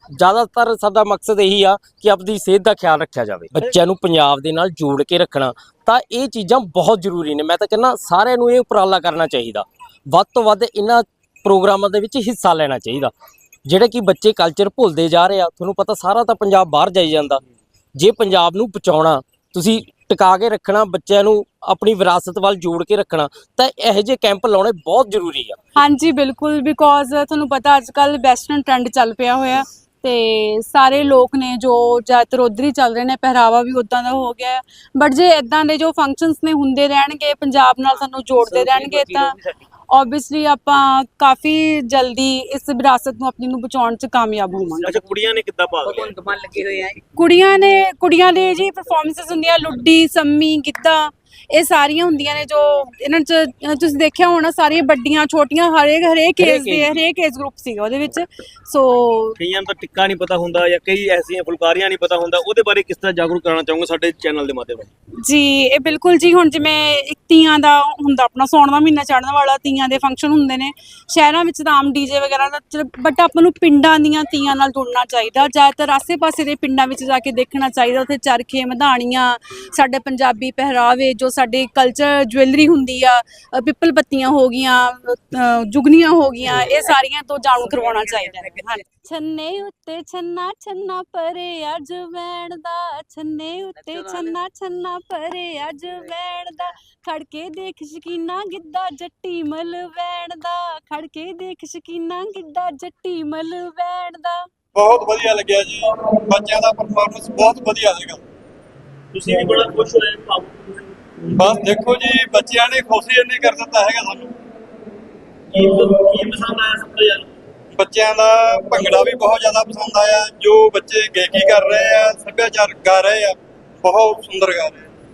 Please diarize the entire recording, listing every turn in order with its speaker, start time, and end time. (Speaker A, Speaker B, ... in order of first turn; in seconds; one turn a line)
Speaker A: 0.2-13.1
Speaker A: 13.7-17.4
Speaker A: 18.0-25.6
Speaker B: 25.8-39.4
Speaker C: 38.5-39.4
Speaker B: 39.9-45.0
Speaker D: 44.8-46.2
Speaker C: 45.9-47.0
Speaker B: 47.2-59.4
Speaker D: 59.4-64.9
Speaker B: 65.2-104.4
Speaker C: 87.8-88.8
Speaker C: 94.0-94.3
Speaker E: 104.8-108.2
Speaker D: 109.1-110.9
Speaker E: 111.4-114.3
Speaker D: 115.5-117.3
Speaker E: 117.7-124.9